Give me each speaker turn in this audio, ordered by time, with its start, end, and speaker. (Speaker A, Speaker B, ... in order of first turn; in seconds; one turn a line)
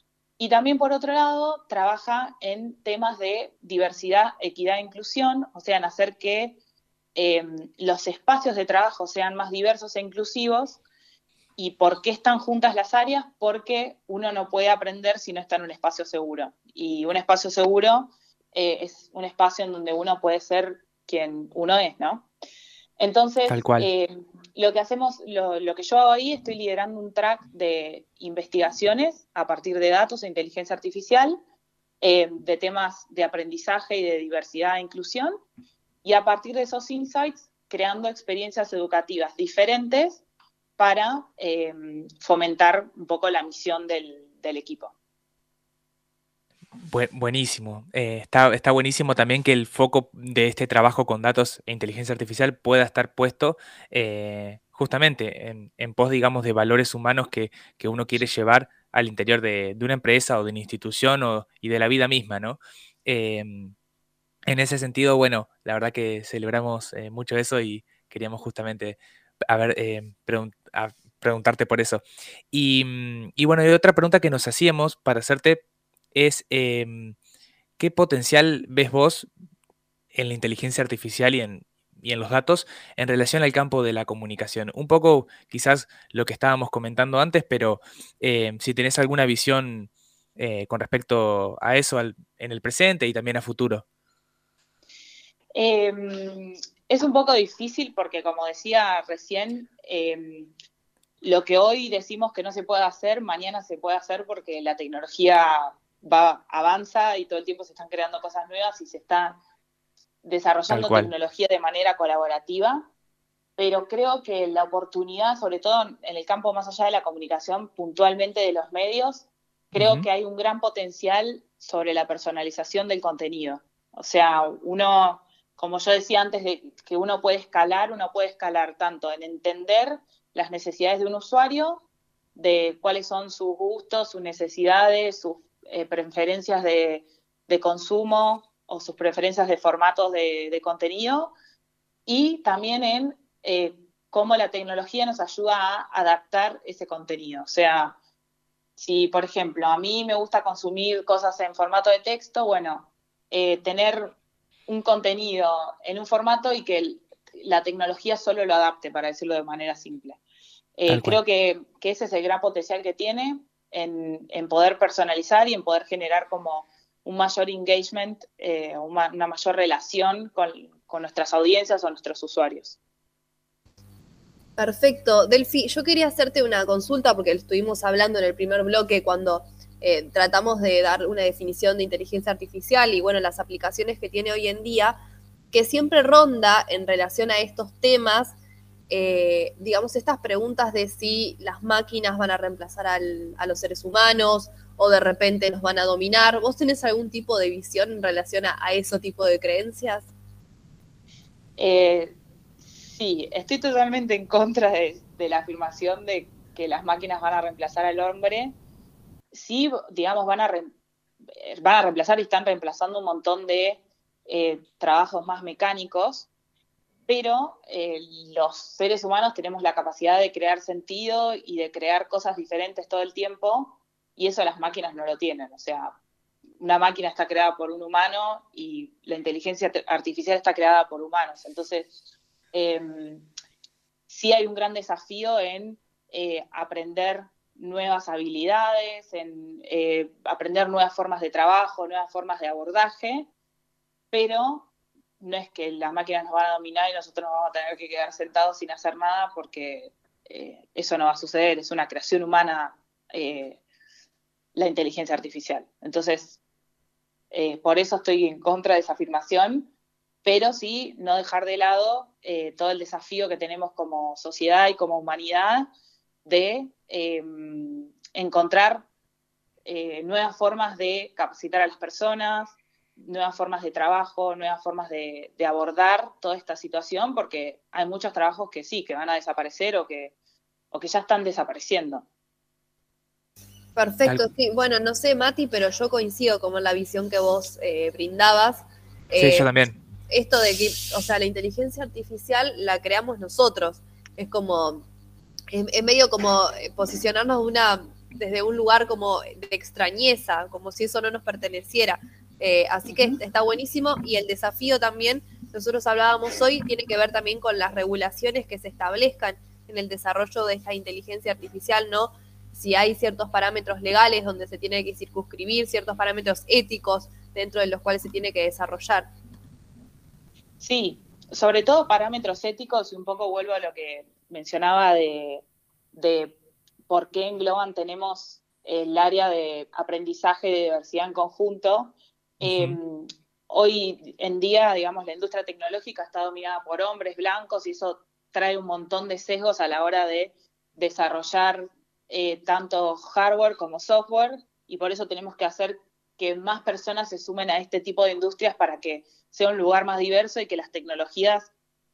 Speaker A: 0.4-6.6
Speaker A: 7.2-10.8
Speaker A: 11.6-22.3
Speaker A: 23.0-31.4
Speaker B: 23.5-23.9
Speaker A: 32.0-35.4
Speaker A: 36.0-40.2
Speaker A: 40.8-44.9
Speaker B: 46.9-63.7
Speaker B: 64.5-75.6
Speaker B: 76.1-77.2
Speaker B: 77.8-79.3
Speaker B: 80.1-93.8
Speaker A: 95.5-100.5
Speaker A: 101.2-109.4
Speaker A: 110.2-112.9
Speaker B: 110.7-111.1
Speaker A: 113.6-131.8
Speaker B: 119.8-120.1
Speaker A: 132.4-141.3
Speaker A: 142.1-148.0
Speaker A: 148.8-154.2
Speaker A: 154.7-160.2
Speaker A: 160.8-172.8
Speaker B: 160.9-161.2
Speaker C: 174.6-185.0
Speaker C: 185.5-188.3
Speaker C: 188.9-200.1
Speaker A: 201.6-202.2
Speaker A: 202.7-208.6
Speaker A: 209.3-210.7
Speaker A: 211.4-216.3
Speaker A: 217.1-225.9
Speaker A: 226.6-231.9
Speaker A: 232.5-233.3
Speaker A: 234.1-243.3
Speaker A: 244.1-244.7
Speaker A: 245.2-253.6
Speaker A: 254.6-256.4
Speaker A: 257.3-259.7
Speaker A: 260.2-265.7
Speaker A: 266.2-268.9
Speaker A: 269.6-280.1
Speaker A: 280.7-282.1
Speaker C: 283.8-289.5
Speaker B: 289.2-289.8
Speaker C: 290.1-294.9
Speaker C: 295.5-319.1
Speaker A: 320.6-326.4
Speaker A: 326.9-351.5
Speaker B: 332.4-332.8